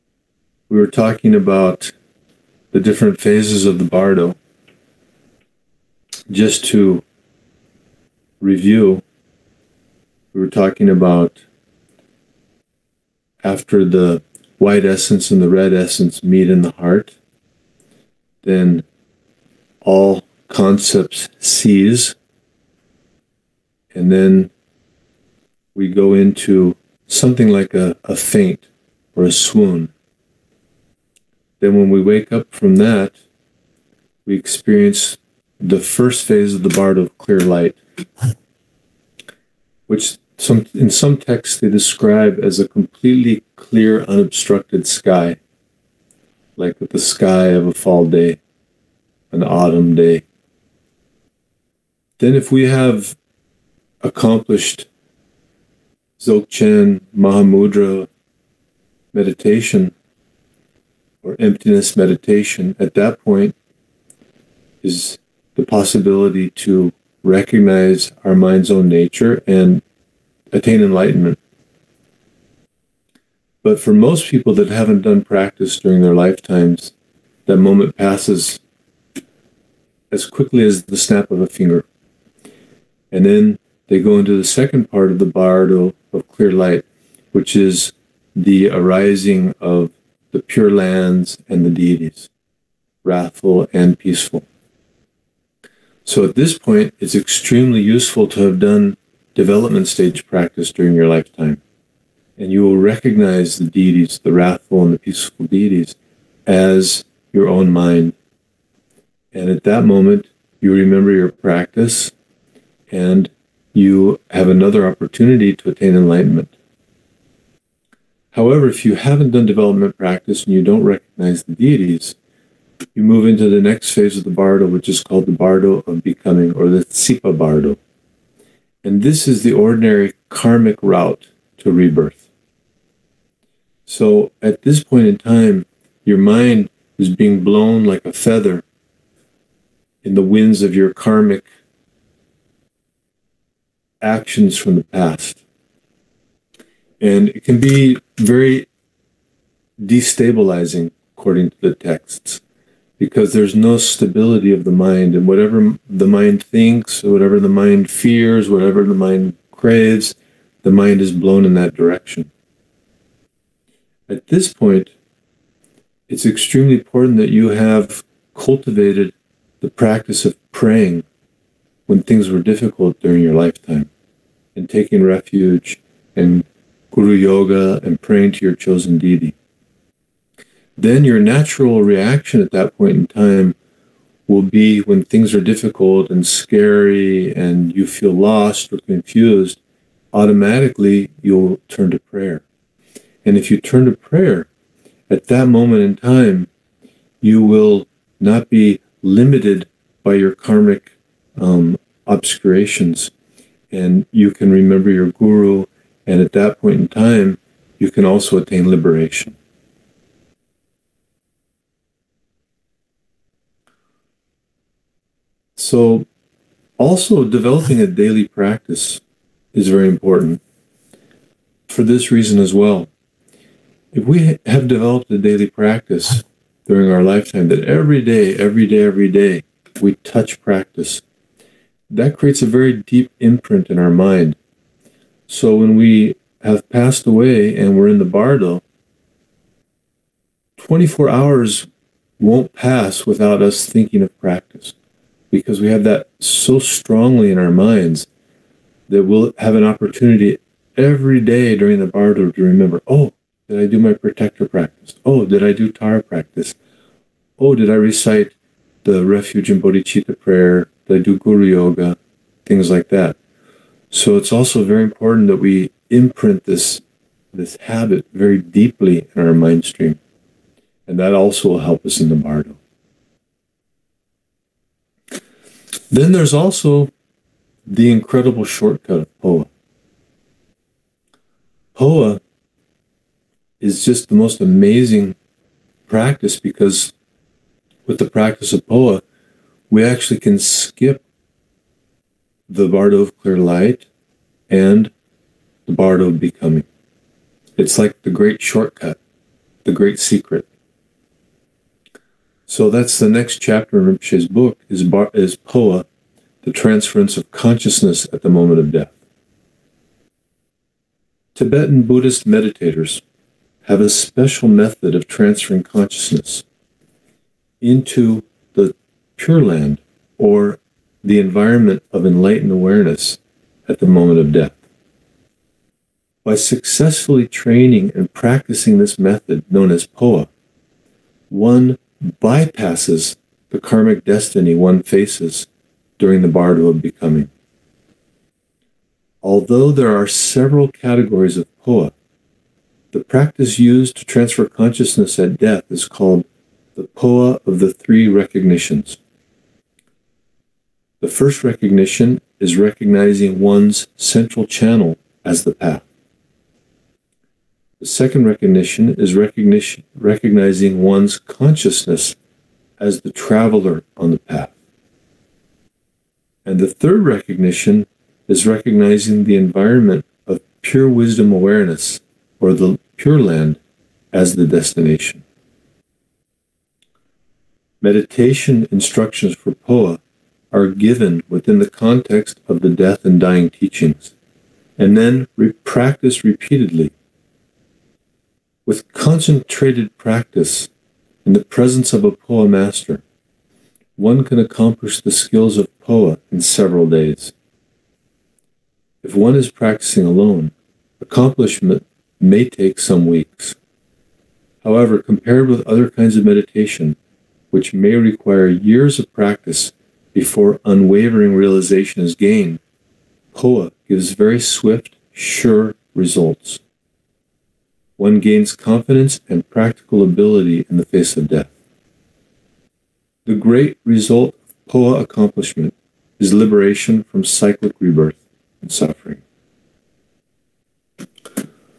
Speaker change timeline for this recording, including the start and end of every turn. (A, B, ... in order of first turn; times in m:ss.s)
0:00.7-0:01.9 A
0:02.7-0:04.4 A
0:06.3-0:07.0 A
0:08.4-0:09.0 A
0:10.3-0:11.4 A
0:13.4-0:17.2 A
0:18.4-0:18.8 A
0:19.8-0:22.2 A
0:23.9-0:24.5 A
0:25.7-0:29.9 A
0:31.6-0:33.1 A
0:34.2-0:37.8 A
0:39.9-0:45.4 A
0:46.6-0:48.4 A
0:49.3-0:50.2 A
0:52.2-0:53.2 A
0:54.0-0:54.9 A
0:56.2-0:58.1 A
0:59.1-0:59.9 A
1:01.2-1:03.5 A
1:04.8-1:09.8 A
1:10.5-1:11.4 A
1:13.6-1:16.9 A
1:17.4-1:18.6 A
1:20.1-1:21.8 A
1:23.1-1:32.3 A
1:33.0-1:34.5 A
1:36.0-1:41.6 A
1:42.4-1:46.0 A
1:46.5-1:48.2 A
1:49.3-1:52.1 A
1:52.9-1:56.5 A
1:58.3-2:02.2 A
2:02.9-2:07.8 A
2:08.8-2:12.2 A
2:13.8-2:18.6 A
2:20.0-2:21.4 A
2:24.0-2:25.4 A
2:27.0-2:28.7 A
2:29.8-2:32.4 A
2:33.0-2:42.3 A
2:44.1-2:44.9 A
2:46.1-2:51.0 A
2:51.9-2:53.9 A
2:54.5-2:59.4 A
3:00.8-3:03.6 A
3:04.3-3:09.6 A
3:10.1-3:12.4 A
3:13.2-3:14.5 A
3:15.1-3:16.5 A
3:17.2-3:23.1 A
3:23.7-3:29.4 A
3:35.6-3:36.1 A
3:36.8-3:39.0 A
3:39.5-3:40.4 A
3:41.7-3:42.9 A
3:43.9-3:51.0 A
3:51.9-3:54.4 A
3:55.3-3:58.6 A
4:00.6-4:01.7 A
4:02.2-4:04.7 A
4:05.3-4:08.1 A
4:08.9-4:16.6 A
4:17.4-4:23.2 A
4:23.9-4:26.8 A
4:27.3-4:30.0 A
4:30.9-4:32.6 A
4:35.9-4:36.9 A
4:37.7-4:39.5 A
4:41.7-4:42.2 A
4:43.6-4:45.2 A
4:45.9-4:46.9 A
4:47.9-4:49.0 A
4:49.7-4:51.0 A
4:52.5-4:53.9 A
4:54.5-4:54.9 A
4:55.7-4:56.6 A
4:57.6-4:59.0 A
4:59.6-5:00.5 A
5:02.5-5:05.8 A
5:06.4-5:09.0 A
5:11.3-5:13.0 A
5:13.6-5:16.4 A
5:17.6-5:24.6 A
5:26.2-5:30.3 A
5:31.3-5:35.5 A
5:36.0-5:37.3 A
5:39.2-5:41.9 A
5:42.9-5:49.0 A
5:51.0-5:55.8 A
5:57.8-6:02.2 A
6:02.8-6:04.5 A
6:06.4-6:13.6 A
6:14.1-6:15.2 A
6:17.8-6:20.0 A
6:20.5-6:24.1 A
6:24.8-6:26.9 A
6:28.6-6:30.7 A
6:31.2-6:33.0 A
6:34.0-6:37.3 A
6:39.0-6:43.6 A
6:44.6-6:47.0 A
6:47.5-6:52.6 A
6:53.3-6:56.6 A
6:58.0-7:01.5 A
7:03.2-7:09.2 A